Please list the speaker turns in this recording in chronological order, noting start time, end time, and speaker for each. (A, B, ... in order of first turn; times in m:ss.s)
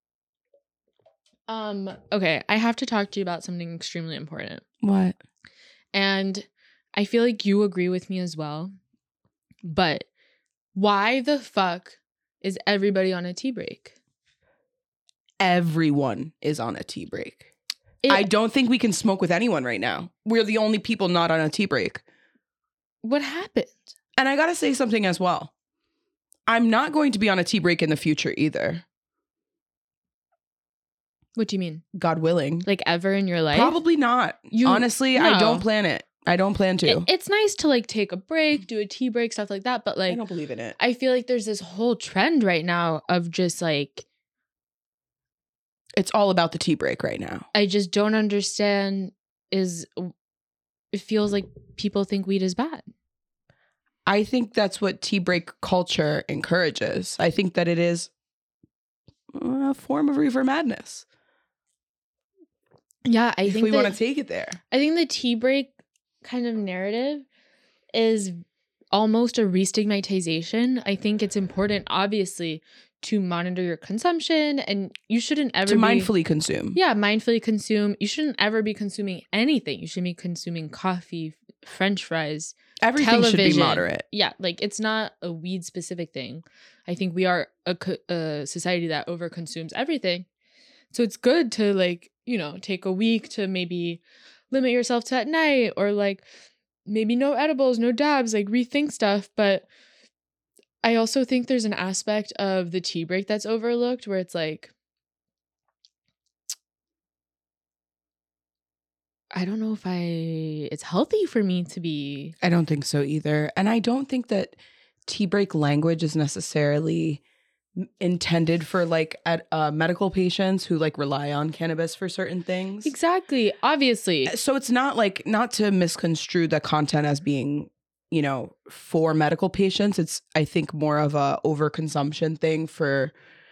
0:01.5-0:04.6 A
0:04.8-0:05.2 B
0:05.9-0:08.7 A
0:09.6-0:10.1 A
0:10.8-0:14.0 A
0:15.4-0:17.5 B
0:18.0-0:18.3 A
0:18.1-0:22.0 B
0:23.0-0:23.9 A
0:24.2-0:25.5 B
0:26.5-0:28.8 B
0:31.4-0:31.8 A
0:31.9-0:32.7 B
0:32.6-0:33.8 A
0:33.5-0:37.1 B
0:34.5-0:35.6 A
0:36.8-0:40.2 A
0:40.1-0:40.8 B
0:40.8-0:44.0 A
0:46.0-0:47.5 B
0:47.5-0:50.1 A
0:50.9-0:52.8 A
0:54.1-0:58.1 B
0:59.3-1:01.0 B
1:03.0-1:04.0 A
1:03.5-1:04.6 B
1:04.7-1:07.2 A
1:07.9-1:08.4 A
1:08.9-1:16.1 A
1:15.6-1:16.8 B
1:16.7-1:30.3 A
1:22.8-1:24.0 B
1:30.9-1:36.2 A
1:36.9-1:39.7 A
1:40.8-1:44.7 A
1:49.3-1:52.4 A
1:52.4-1:57.2 B
1:57.8-2:02.9 B
2:02.8-2:04.3 A
2:04.2-2:13.1 B